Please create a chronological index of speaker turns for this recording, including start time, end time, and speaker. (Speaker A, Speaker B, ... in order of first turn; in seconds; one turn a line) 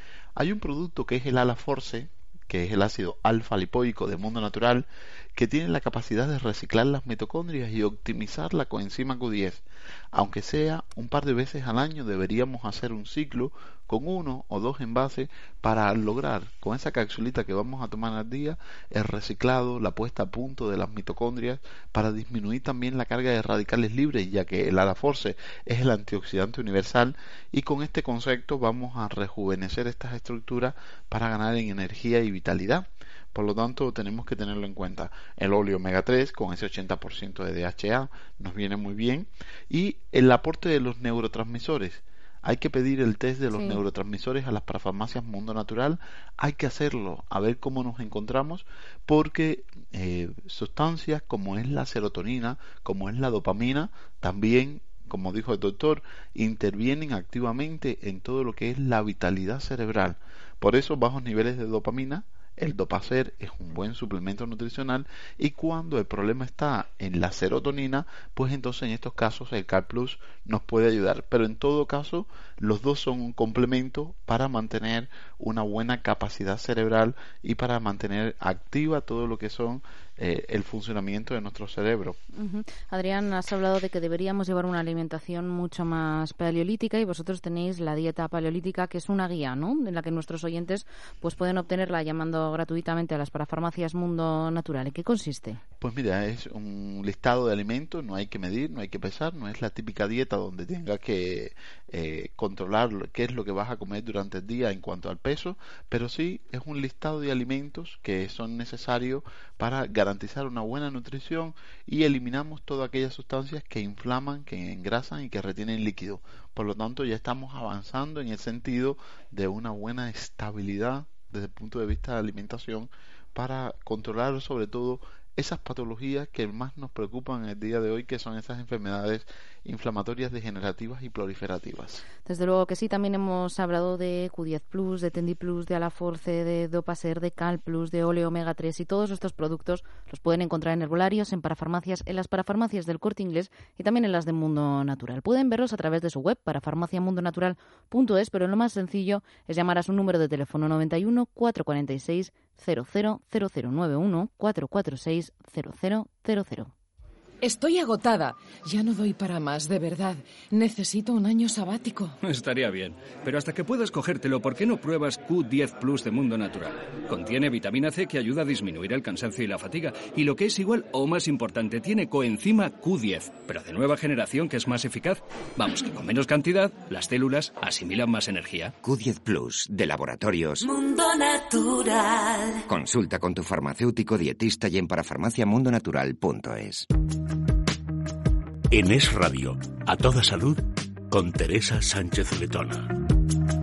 Speaker A: 0.3-82.2
Speaker B: 82.3-95.6
Speaker A: 95.8-132.0
Speaker B: 132.2-156.7
Speaker C: 157.4-162.2
Speaker D: 162.2-178.7
Speaker E: 178.8-180.6
Speaker F: 180.6-182.6
Speaker E: 182.7-186.9
Speaker G: 188.7-192.9